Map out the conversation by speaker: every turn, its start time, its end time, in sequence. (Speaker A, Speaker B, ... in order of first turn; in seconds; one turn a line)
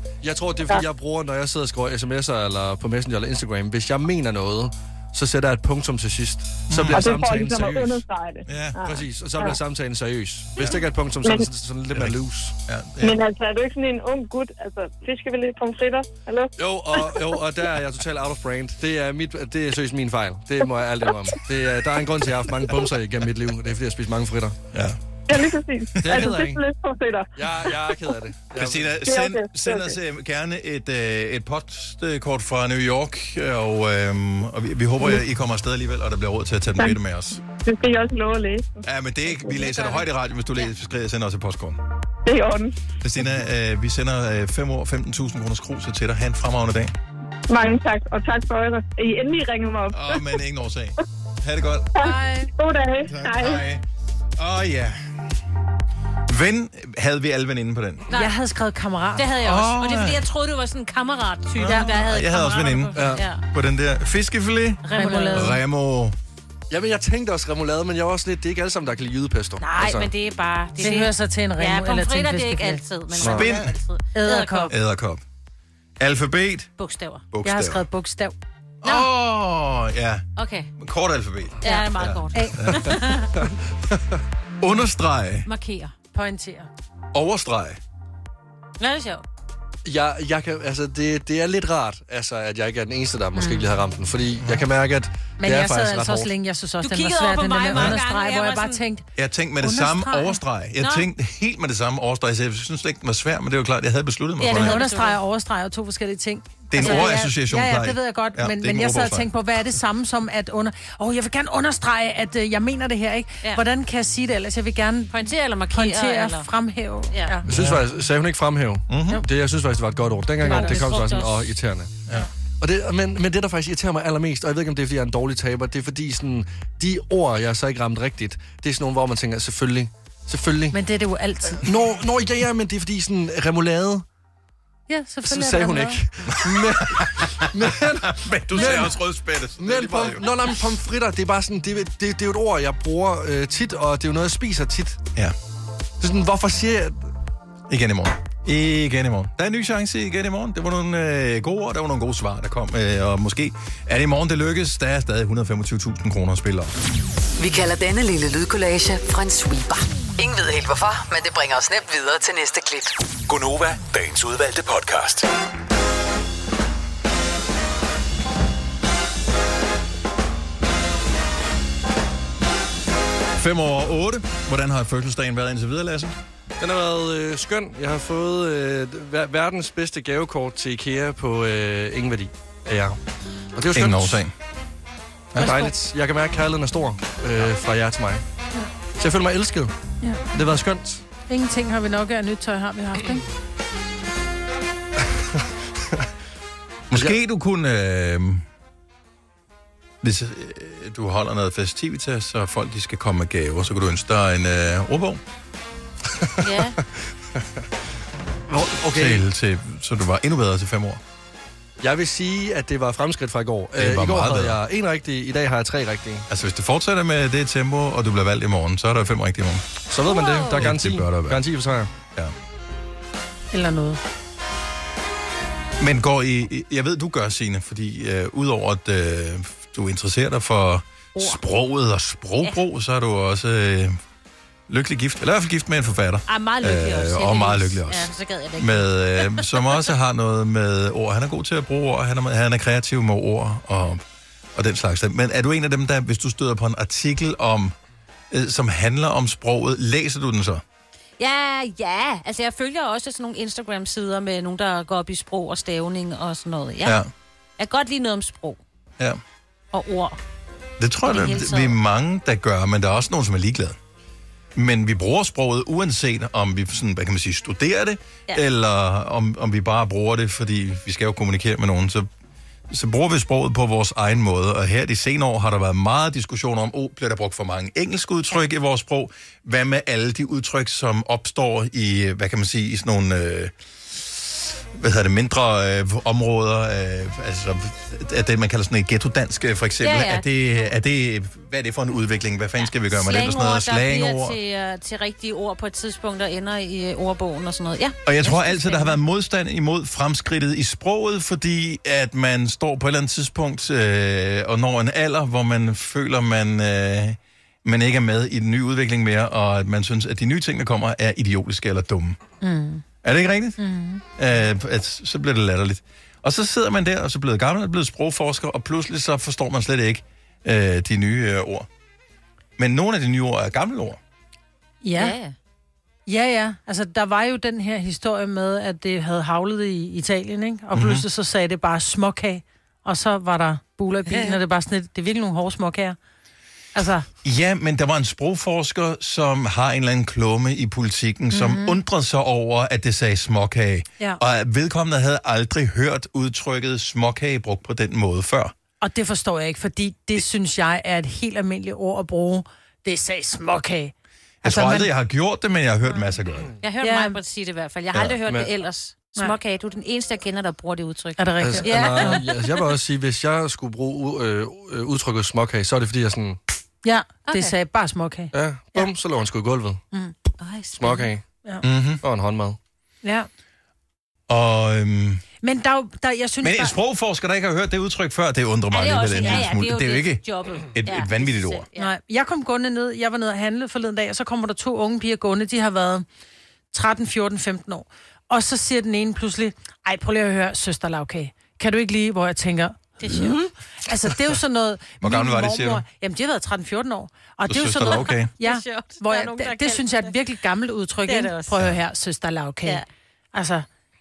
Speaker A: 0.2-8.0
Speaker B: 6.7-7.2
Speaker C: 6.9-9.6
Speaker B: 8.4-8.8
Speaker A: 8.8-12.5
Speaker C: 11.2-11.5
Speaker B: 11.9-13.2
Speaker C: 13.0-17.1
Speaker A: 16.6-24.6
Speaker B: 24.7-26.3
Speaker C: 25.3-27.3
Speaker A: 26.0-26.6
Speaker A: 27.4-28.9
Speaker B: 28.5-37.4
Speaker C: 29.0-29.9
Speaker C: 36.7-38.8
Speaker B: 38.8-41.8
Speaker C: 39.4-39.7
Speaker C: 42.2-42.8
Speaker B: 43.0-46.9
Speaker C: 47.5-50.4
Speaker B: 49.9-51.9
Speaker C: 52.0-53.7
Speaker D: 52.0-52.5
Speaker B: 53.0-53.8
Speaker B: 54.4-55.2
Speaker B: 56.3-58.0
Speaker E: 58.1-58.3
Speaker D: 58.1-59.3
Speaker E: 59.2-63.4
Speaker B: 59.4-60.2
Speaker B: 61.6-66.2
Speaker D: 61.6-61.9
Speaker A: 63.0-63.2
Speaker E: 64.8-65.5
Speaker D: 64.9-65.5
Speaker A: 66.7-70.1
Speaker E: 69.6-74.7
Speaker D: 70.8-72.8
Speaker A: 73.2-73.5
Speaker B: 73.2-73.8
Speaker D: 74.1-74.7
Speaker B: 74.7-75.2
Speaker B: 76.0-76.7
Speaker E: 76.8-77.2
Speaker B: 77.3-77.8
Speaker D: 77.4-78.3
Speaker B: 78.8-80.2
Speaker E: 80.3-80.7
Speaker B: 80.8-83.0
Speaker E: 81.6-83.3
Speaker D: 82.3-82.7
Speaker A: 83.4-84.2
Speaker B: 84.6-85.5
Speaker E: 85.5-85.9
Speaker D: 86.1-86.7
Speaker B: 87.1-87.8
Speaker E: 88.8-89.2
Speaker A: 89.8-96.3
Speaker D: 93.3-93.7
Speaker B: 94.4-94.6
Speaker D: 95.4-99.0
Speaker E: 96.8-98.8
Speaker B: 97.7-98.0
Speaker B: 99.2-104.8
Speaker D: 99.6-100.4
Speaker E: 100.8-101.1
Speaker E: 104.4-105.2
Speaker D: 104.5-115.2
Speaker B: 106.7-109.3
Speaker E: 106.8-107.2
Speaker E: 115.1-116.5
Speaker D: 115.7-117.4
Speaker A: 117.5-121.9
Speaker B: 117.5-117.8
Speaker B: 118.9-119.2
Speaker D: 120.4-120.9
Speaker E: 120.4-121.5
Speaker A: 122.6-130.8
Speaker D: 130.7-131.6
Speaker A: 131.6-134.0
Speaker D: 134.9-136.0
Speaker A: 135.2-139.0
Speaker B: 136.3-140.3
Speaker A: 139.6-145.0
Speaker A: 146.0-147.1
Speaker B: 147.7-156.7
Speaker F: 157.4-162.9
Speaker G: 163.3-165.3
Speaker B: 173.3-176.1
Speaker A: 176.6-183.0
Speaker A: 183.5-184.2
Speaker B: 183.7-184.3
Speaker B: 185.3-185.6
Speaker A: 185.3-188.2
Speaker D: 185.4-185.7
Speaker A: 189.0-189.7
Speaker A: 190.3-191.0
Speaker D: 191.3-193.2
Speaker B: 196.9-198.4
Speaker B: 200.0-205.2
Speaker E: 206.4-206.8
Speaker A: 208.5-209.2
Speaker B: 208.9-211.0
Speaker A: 211.8-216.3
Speaker B: 213.8-214.6
Speaker B: 216.3-219.6
Speaker A: 219.9-221.9
Speaker E: 220.1-220.6
Speaker B: 220.6-221.4
Speaker D: 223.5-224.0
Speaker B: 225.8-234.0
Speaker B: 234.7-244.0
Speaker E: 236.3-239.6
Speaker B: 244.5-247.7
Speaker B: 248.3-250.6
Speaker E: 251.2-257.0
Speaker B: 256.8-257.1
Speaker E: 257.6-258.6
Speaker E: 259.7-260.2
Speaker B: 260.8-263.8
Speaker E: 261.0-261.8
Speaker B: 264.5-272.1
Speaker B: 272.7-294.4
Speaker E: 289.8-290.2
Speaker E: 292.7-299.0
Speaker B: 298.0-312.2
Speaker D: 312.4-312.8
Speaker B: 313.0-313.6
Speaker D: 313.6-314.0
Speaker B: 314.1-321.7
Speaker B: 322.6-324.0
Speaker D: 324.8-325.1
Speaker E: 324.9-325.4
Speaker D: 326.1-336.0
Speaker B: 330.7-331.0
Speaker E: 334.1-334.4
Speaker D: 336.7-337.1
Speaker B: 337.2-348.5
Speaker D: 341.3-341.8
Speaker D: 348.8-353.9
Speaker B: 354.4-356.5
Speaker D: 354.4-354.9
Speaker E: 356.6-362.5
Speaker D: 356.8-357.2
Speaker D: 361.2-362.2
Speaker A: 361.4-366.4
Speaker D: 366.8-368.9
Speaker E: 367.2-367.5
Speaker A: 368.3-369.8
Speaker E: 370.4-371.1
Speaker A: 370.8-371.2
Speaker B: 371.6-372.0
Speaker A: 372.0-372.6
Speaker D: 373.0-373.3
Speaker B: 374.3-375.2
Speaker D: 375.4-376.8
Speaker B: 376.4-381.6
Speaker E: 378.7-381.9
Speaker D: 381.8-386.1
Speaker D: 386.7-402.8
Speaker E: 393.0-393.5
Speaker B: 395.0-395.8
Speaker B: 397.5-398.3
Speaker E: 398.1-400.1
Speaker E: 401.1-401.5
Speaker D: 403.3-403.6